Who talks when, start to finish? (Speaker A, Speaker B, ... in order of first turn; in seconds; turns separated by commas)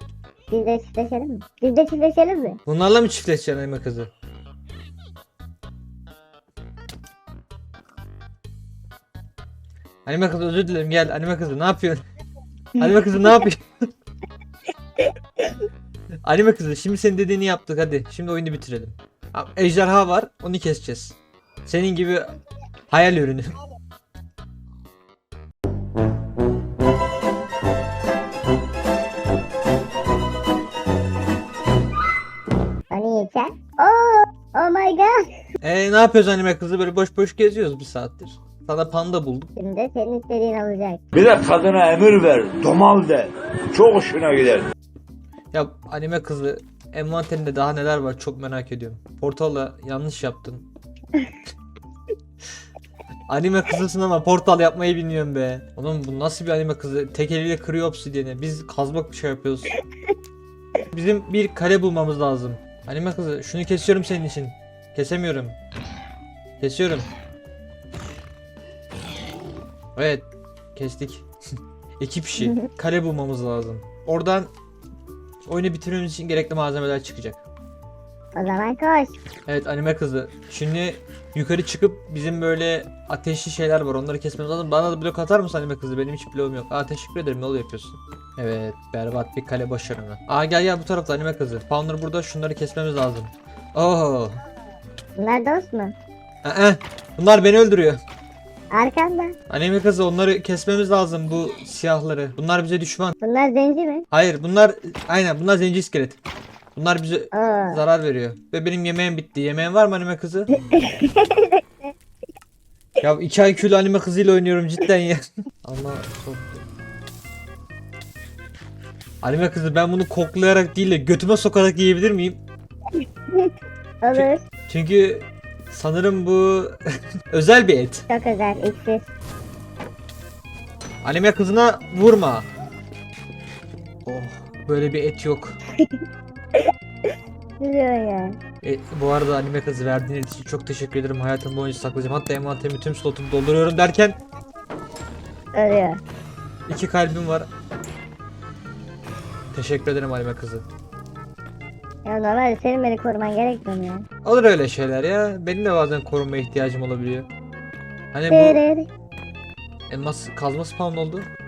Speaker A: 0.5-2.6, Speaker B: 2.7-4.1, Speaker B: 10.1-12.0, Speaker B: 12.8-13.6, Speaker A: 12.8-13.3, Speaker B: 16.2-22.3, Speaker B: 22.9-23.6, Speaker A: 32.9-35.2, Speaker B: 35.6-39.5, Speaker A: 39.6-41.0, Speaker C: 41.1-44.7, Speaker B: 45.5-50.7, Speaker B: 53.3-59.8, Speaker B: 60.9-65.6, Speaker B: 66.6-67.1, Speaker B: 70.0-71.2, Speaker B: 72.0-74.5, Speaker A: 72.4-72.7, Speaker B: 75.5-77.4, Speaker A: 78.4-79.2, Speaker B: 79.5-94.4, Speaker A: 95.2-96.0, Speaker B: 96.4-98.0, Speaker A: 98.7-99.4, Speaker B: 99.5-103.2, Speaker A: 103.2-104.1, Speaker B: 104.1-106.2, Speaker B: 106.8-110.5, Speaker A: 107.3-107.8, Speaker A: 110.7-111.9, Speaker B: 113.0-116.7, Speaker B: 119.2-122.4, Speaker A: 123.0-124.4, Speaker B: 124.1-126.8, Speaker B: 127.3-128.1, Speaker A: 128.1-129.1, Speaker B: 131.0-132.5, Speaker B: 134.1-135.6, Speaker A: 136.6-138.4, Speaker B: 138.6-144.2, Speaker A: 145.5-146.0, Speaker B: 146.7-147.5, Speaker B: 149.5-150.7, Speaker A: 152.1-154.1, Speaker B: 154.2-157.3, Speaker B: 158.1-158.6, Speaker A: 158.3-158.9, Speaker B: 159.9-161.3